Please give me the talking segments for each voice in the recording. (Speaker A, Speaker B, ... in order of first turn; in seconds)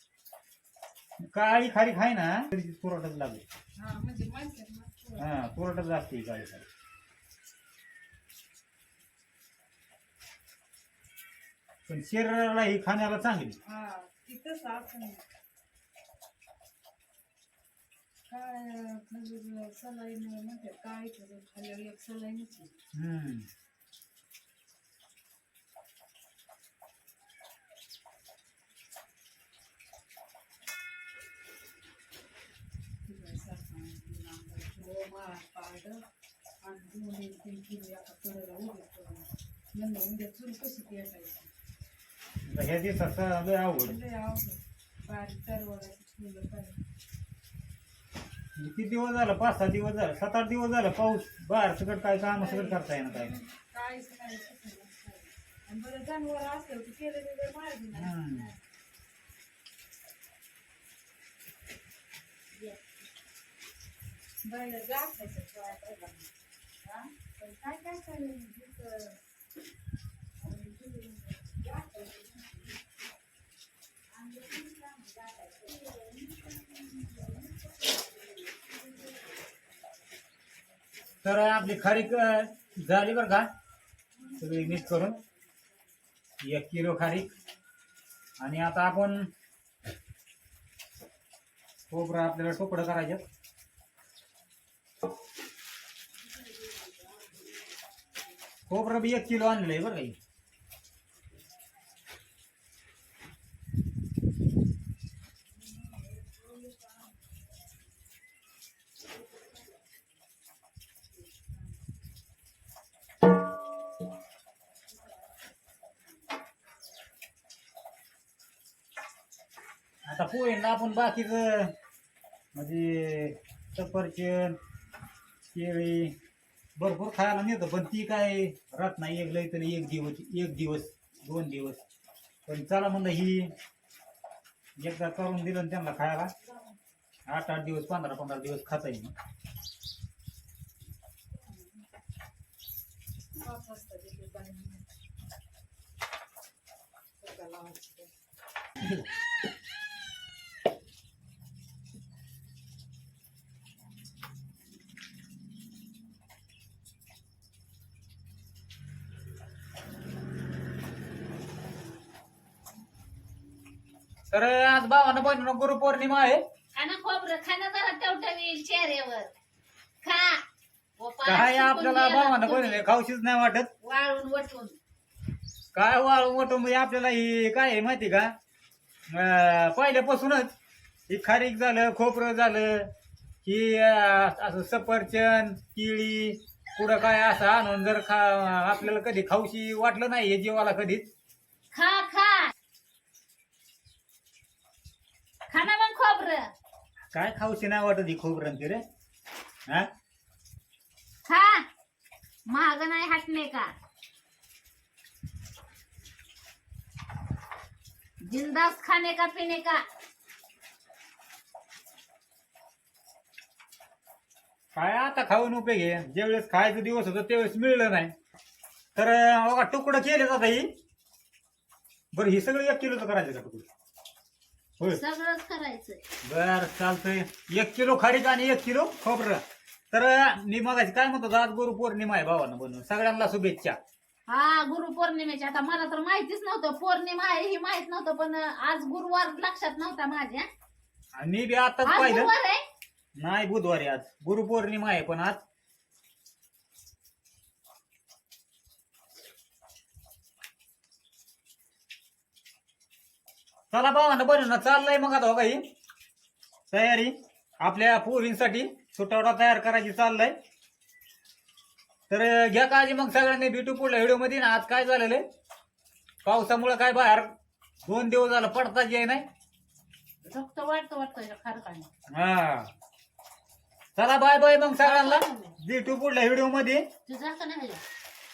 Speaker A: 1.2-3.4, 5.2-6.7, 11.9-13.6, 22.9-23.5, 42.5-44.0, 48.6-53.4, 57.9-58.5, 81.2-83.5, 84.4-85.2, 86.4-87.3, 88.4-89.3, 91.9-93.2, 98.7-100.2, 120.1-121.7, 122.5-124.6, 125.5-126.2, 126.8-131.8, 132.5-133.5, 134.8-136.3, 137.3-139.1, 148.8-149.1, 164.3-166.4, 171.2-173.7, 175.7-178.3, 179.1-180.5, 181.1-182.9, 183.4-191.1, 197.1-198.8, 214.7-218.1, 219.0-220.7, 222.1-223.7, 226.2-229.4, 229.9-233.8, 241.2-242.3, 243.2-245.4, 253.7-255.6, 256.7-260.3, 262.1-265.2, 266.2-267.3, 267.9-269.2, 272.1-272.7, 274.0-276.8
Speaker B: 3.8-5.3, 13.6-15.2, 18.3-22.7, 33.1-36.0, 36.6-41.5, 43.8-46.8, 52.3-58.4, 64.4-66.3, 67.2-69.2, 70.5-72.3, 84.3-85.0, 141.4-141.8, 143.4-144.8, 147.2-148.1
Speaker C: 74.3-76.0, 166.8-169.3, 170.0-170.4, 171.0-172.8, 173.8-174.8, 191.7-192.5, 195.5-196.5, 201.3-201.7, 202.5-203.7, 208.2-209.8, 224.9-226.0, 234.3-240.5, 241.8-242.6, 270.3-271.9, 274.8-275.5, 277.1-277.8